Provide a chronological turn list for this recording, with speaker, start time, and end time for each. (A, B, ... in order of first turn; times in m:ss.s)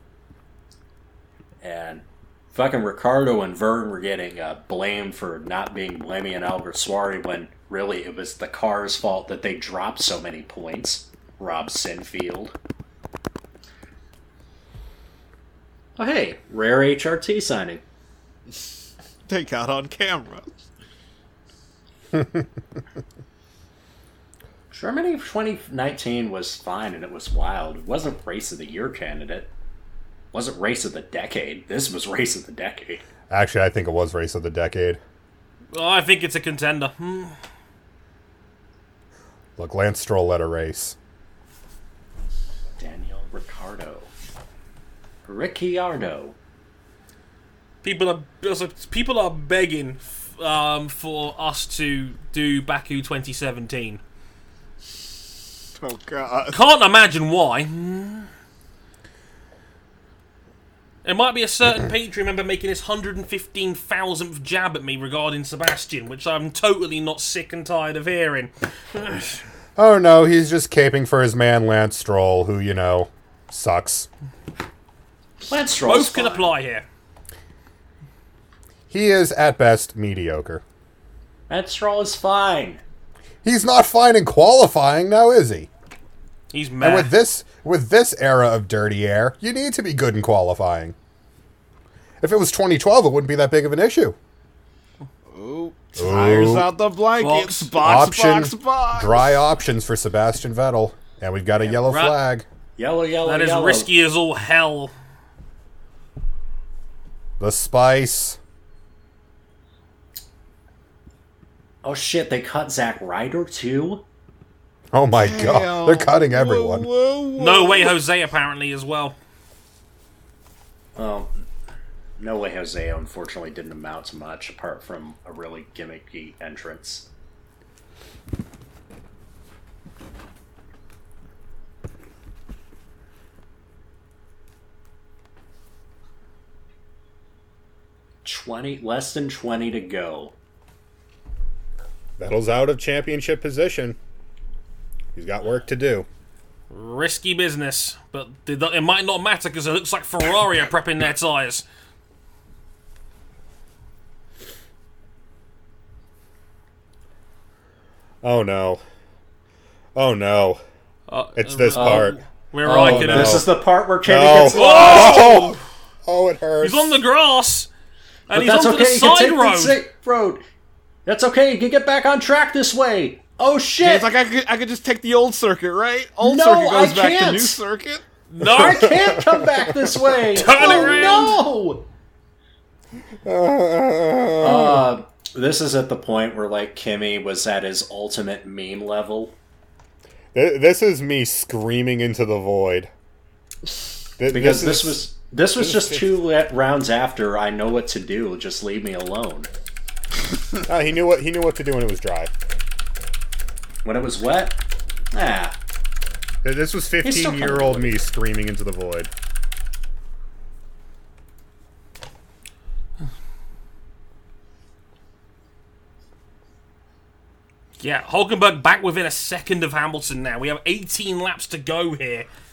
0:01.6-0:12.5 A
0:16.0-0:17.8 A
0:19.3-0:20.5 B
0:24.7-0:29.5 A
0:30.3-0:33.0 A
0:33.3-0:35.0 C
0:35.7-0:37.3 D
0:39.6-0:41.0 C
0:42.8-0:44.1 A
0:45.3-0:46.4 A
0:47.8-0:54.0 D
0:55.8-0:56.6 B
0:56.5-0:58.3 D
1:01.0-1:09.4 D
1:09.8-1:14.1 C
1:15.4-1:16.5 A
1:15.9-1:16.8 D
1:18.9-1:20.6 C
1:21.5-1:22.8 A
1:23.4-1:25.7 C
1:26.5-1:27.1 D
1:26.8-1:31.0 C
1:32.2-1:34.2 C
1:35.3-1:39.4 B
1:36.0-1:36.7 C
1:37.2-1:37.7 D
1:37.8-1:42.4 C
1:41.8-1:42.2 D
1:42.8-1:43.9 A
1:43.2-1:44.9 D
1:47.4-1:48.4 C
1:51.8-1:54.0 A
1:54.9-1:56.9 C
1:55.2-1:58.0 B
1:57.4-1:59.2 D
2:01.0-2:01.3 A
2:02.2-2:07.1 A
2:18.2-2:20.3 A
2:22.2-2:24.0 C
2:25.2-2:26.1 C
2:26.7-2:31.6 D
2:38.2-2:38.8 C
2:40.0-2:40.6 C
2:41.1-2:43.4 D
2:41.4-2:43.5 C
2:41.7-2:42.1 A
2:42.6-2:45.4 A
2:44.0-2:47.0 C
2:44.5-2:45.6 D
2:46.6-2:47.7 D
2:48.3-2:49.8 D
2:48.3-2:50.4 A
2:51.1-2:54.1 A
2:53.8-2:58.0 B
2:56.2-2:57.6 A
2:58.3-2:59.1 D
2:58.4-3:01.9 A
2:58.6-3:01.1 C
3:00.4-3:01.4 D
3:03.2-3:04.8 C
3:04.4-3:09.4 A
3:10.3-3:12.9 C
3:14.2-3:15.0 C
3:14.3-3:19.5 A
3:15.6-3:16.1 C
3:20.6-3:22.3 C
3:23.8-3:24.6 A
3:25.1-3:25.6 A
3:26.4-3:29.1 C
3:27.0-3:28.0 A
3:37.8-3:42.3 D